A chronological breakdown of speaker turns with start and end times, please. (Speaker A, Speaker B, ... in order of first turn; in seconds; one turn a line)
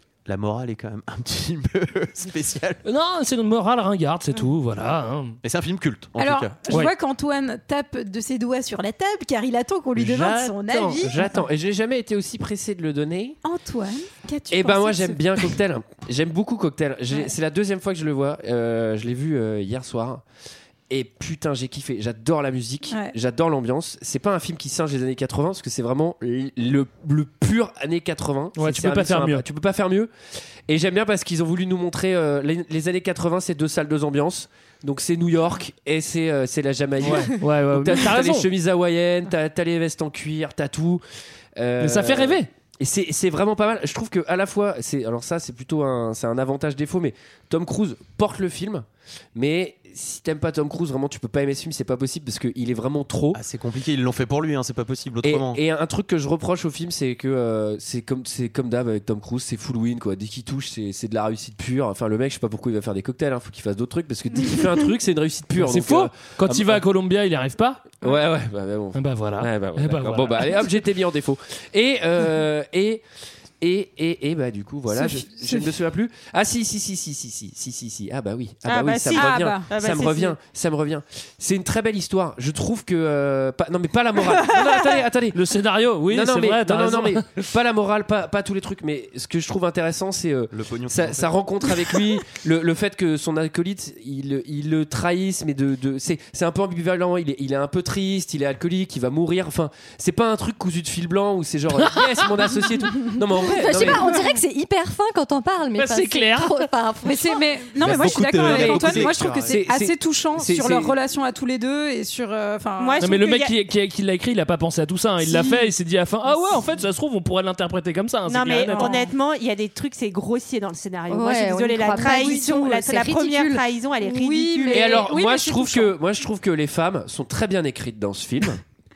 Speaker A: 0.2-2.8
Speaker B: 2.9-5.4
Speaker A: 5.4-6.5
Speaker C: 6.2-11.4
Speaker D: 10.0-13.4
Speaker C: 13.4-15.4
Speaker D: 14.5-20.2
Speaker D: 20.9-30.1
Speaker B: 28.6-29.4
Speaker D: 30.7-41.0
Speaker B: 37.0-38.5
Speaker D: 41.5-53.4
Speaker B: 41.8-42.5
Speaker A: 53.3-55.6
Speaker D: 55.2-66.8
Speaker B: 65.6-68.0
Speaker D: 68.0-73.0
Speaker B: 69.0-70.6
Speaker D: 73.6-85.4
Speaker C: 74.9-75.7
Speaker E: 78.7-80.3
Speaker C: 79.1-79.7
Speaker B: 85.3-87.4
Speaker D: 86.1-104.0
Speaker A: 90.5-91.3
Speaker F: 103.4-107.5
Speaker B: 105.8-106.7
Speaker C: 107.0-113.1
Speaker A: 107.8-109.5
Speaker D: 108.4-111.0
Speaker E: 112.8-113.6
Speaker B: 113.0-118.9
Speaker C: 115.2-115.7
Speaker C: 116.2-116.7
Speaker E: 118.3-125.1
Speaker C: 118.7-119.1
Speaker F: 121.1-123.6
Speaker C: 121.9-122.6
Speaker C: 124.0-125.9
Speaker D: 124.7-128.6